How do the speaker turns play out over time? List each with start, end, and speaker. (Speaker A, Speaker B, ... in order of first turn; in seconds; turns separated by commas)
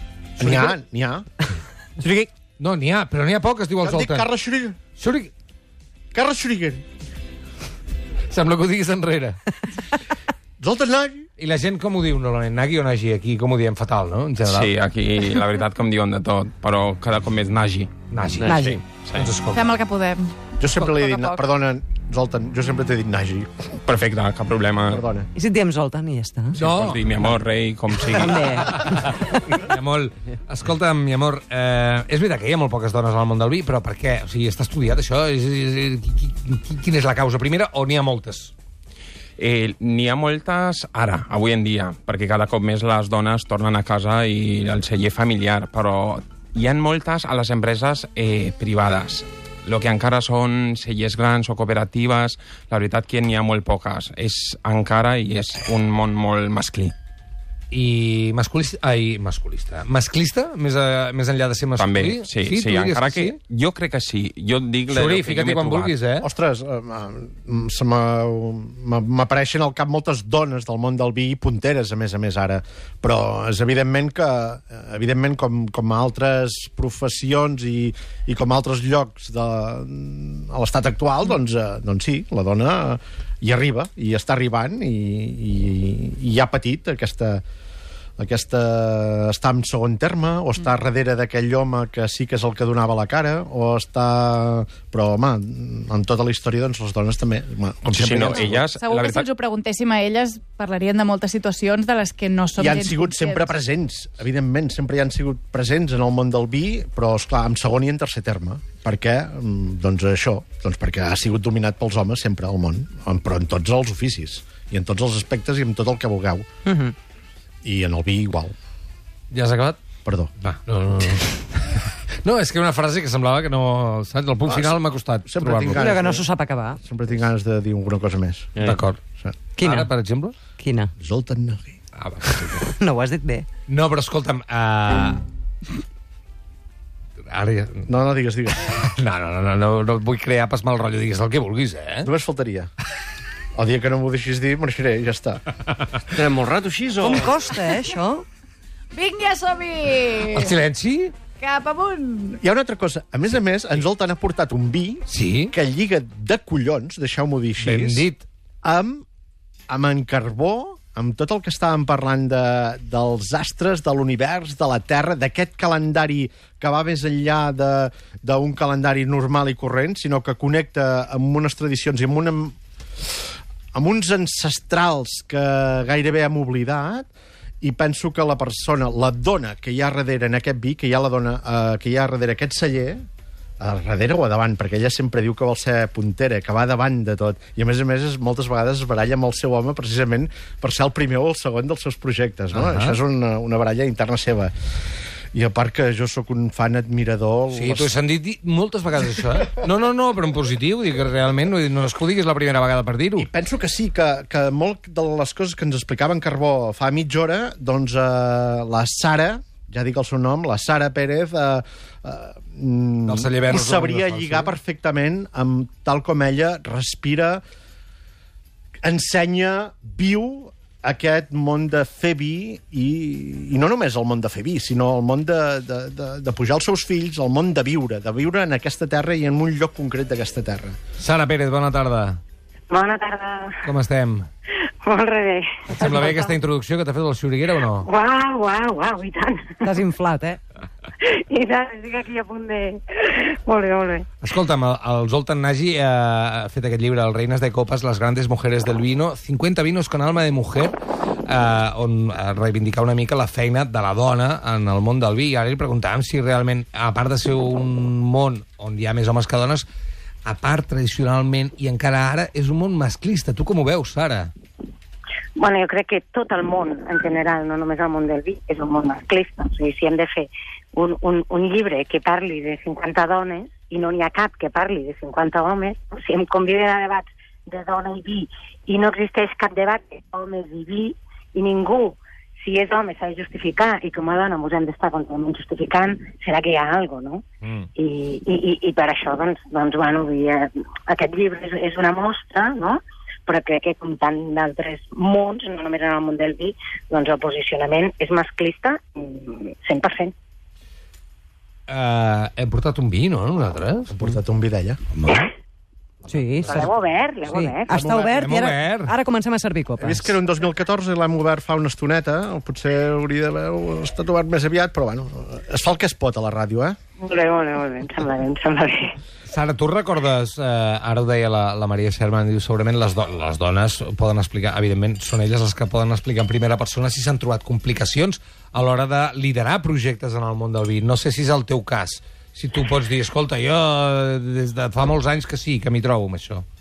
Speaker A: 0.4-0.7, Speaker B: 0.4-1.3, Speaker C: 2.0-2.3, Speaker A: 2.6-4.3, Speaker B: 3.8-4.8, Speaker A: 5.0-5.3, Speaker B: 6.1-6.8, Speaker A: 8.3-9.4, Speaker B: 10.6-11.3, Speaker A: 11.4-14.7, Speaker D: 14.4-17.9, Speaker A: 18.1-19.7, Speaker E: 18.4-18.7, Speaker C: 18.4-18.8, Speaker D: 19.0-19.3, Speaker F: 19.5-21.4, Speaker B: 20.6-23.7, Speaker D: 23.9-25.1, Speaker B: 24.9-25.3, Speaker C: 25.4-26.6, Speaker A: 26.6-27.0, Speaker D: 26.6-29.0, Speaker C: 28.1-28.8, Speaker A: 28.8-38.5, Speaker D: 39.4-56.9, Speaker A: 57.7-63.4, Speaker D: 61.8-66.0, Speaker A: 64.9-66.3, Speaker B: 66.2-87.4, Speaker B: 88.2-98.7, Speaker D: 97.9-99.3, Speaker F: 98.3-103.5, Speaker B: 102.6-116.5, Speaker C: 116.7-116.9, Speaker B: 117.6-118.5, Speaker A: 119.3-119.8, Speaker B: 120.0-120.3, Speaker A: 120.4-121.3, Speaker A: 122.2-125.9, Speaker B: 124.5-126.3, Speaker C: 125.7-126.8, Speaker B: 126.8-128.6, Speaker E: 128.6-128.8, Speaker A: 128.6-129.0, Speaker C: 129.6-129.9, Speaker A: 129.6-130.4, Speaker C: 130.6-130.9, Speaker B: 131.0-131.7, Speaker A: 132.0-132.7, Speaker C: 132.2-133.5, Speaker A: 133.7-135.2, Speaker A: 137.3-137.9, Speaker B: 137.9-138.7, Speaker A: 138.6-142.1, Speaker B: 142.0-142.7, Speaker B: 143.6-145.4, Speaker E: 146.1-147.4, Speaker C: 147.0-148.2, Speaker F: 148.9-150.6, Speaker A: 150.2-151.1, Speaker F: 151.4-152.4, Speaker B: 152.4-158.1, Speaker A: 155.1-155.5, Speaker A: 157.6-158.2, Speaker B: 158.6-159.0, Speaker B: 159.7-172.6, Speaker B: 173.7-177.1, Speaker B: 177.6-183.0, Speaker B: 183.6-194.5, Speaker A: 192.5-193.0, Speaker B: 195.3-197.9, Speaker A: 197.5-203.3, Speaker B: 203.2-217.4, Speaker A: 213.1-214.6, Speaker B: 218.8-230.8, Speaker A: 231.0-232.2, Speaker G: 232.7-233.6, Speaker A: 233.6-234.3, Speaker G: 234.7-236.3, Speaker A: 235.7-237.8, Speaker G: 237.8-239.8, Speaker C: 239.6-240.4, Speaker G: 241.0-244.1, Speaker A: 244.2-259.6, Speaker A: 260.3-264.3, Speaker G: 265.4-287.2, Speaker G: 287.8-300.1, Speaker A: 301.7-303.9, Speaker B: 304.0-304.8, Speaker A: 305.0-305.3, Speaker C: 306.1-306.6, Speaker A: 306.1-306.6, Speaker G: 306.5-307.8, Speaker C: 307.3-310.2, Speaker B: 307.7-308.3, Speaker A: 308.1-309.0, Speaker B: 309.8-316.8, Speaker G: 317.0-318.9, Speaker A: 319.3-336.4